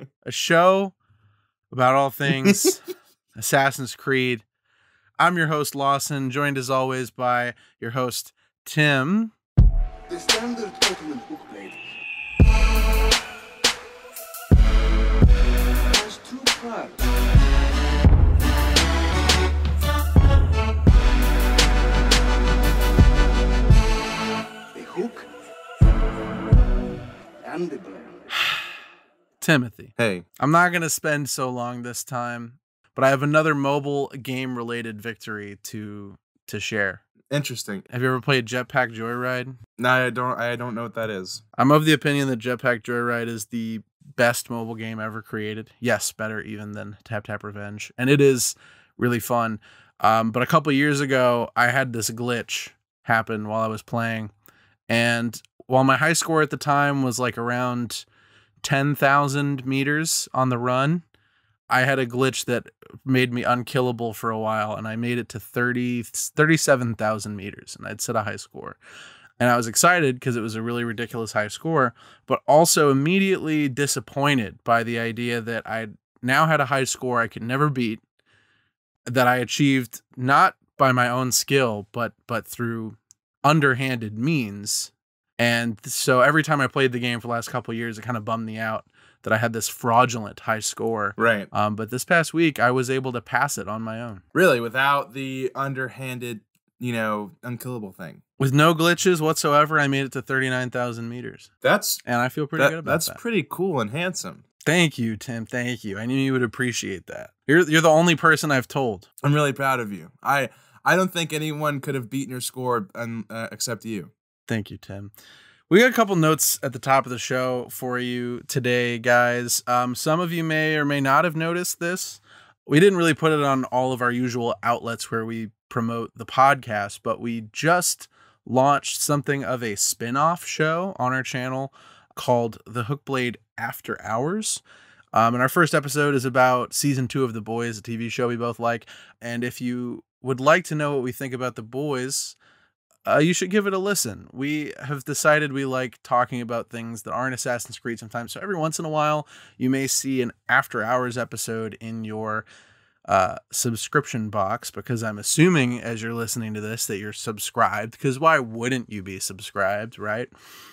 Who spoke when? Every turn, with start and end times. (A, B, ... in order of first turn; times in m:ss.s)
0:00.2-0:01.0 A
0:01.7-0:02.8 A
0:02.3-0:02.6 B
0:03.4-0:04.4 A
0:05.2-0:09.3 A
0:10.1-0:11.8 C
0:15.9-0:17.0 C
0:24.7-0:25.3 C
0:27.4-0:28.3 C
0:29.4-0:37.0 A
0:30.0-0:30.3 B
0:37.3-0:37.8 B
0:37.9-0:39.6 A
0:39.8-0:41.4 B
0:41.6-0:54.3 A
0:54.9-0:58.0 A
0:58.6-1:01.0 A
1:01.7-1:08.8 A
1:09.4-1:18.0 A
1:19.1-1:34.2 A
1:31.2-1:31.5 B
1:34.3-1:38.2 B
1:38.4-1:41.5 A
1:41.6-1:42.0 B
1:42.0-1:43.2 A
1:42.6-1:44.4 B
1:44.6-1:49.1 A
1:49.2-1:54.1 B
1:54.5-1:55.1 A
1:55.7-2:14.6 A
2:15.1-2:22.4 A
2:23.1-2:32.5 A
2:33.1-2:40.3 A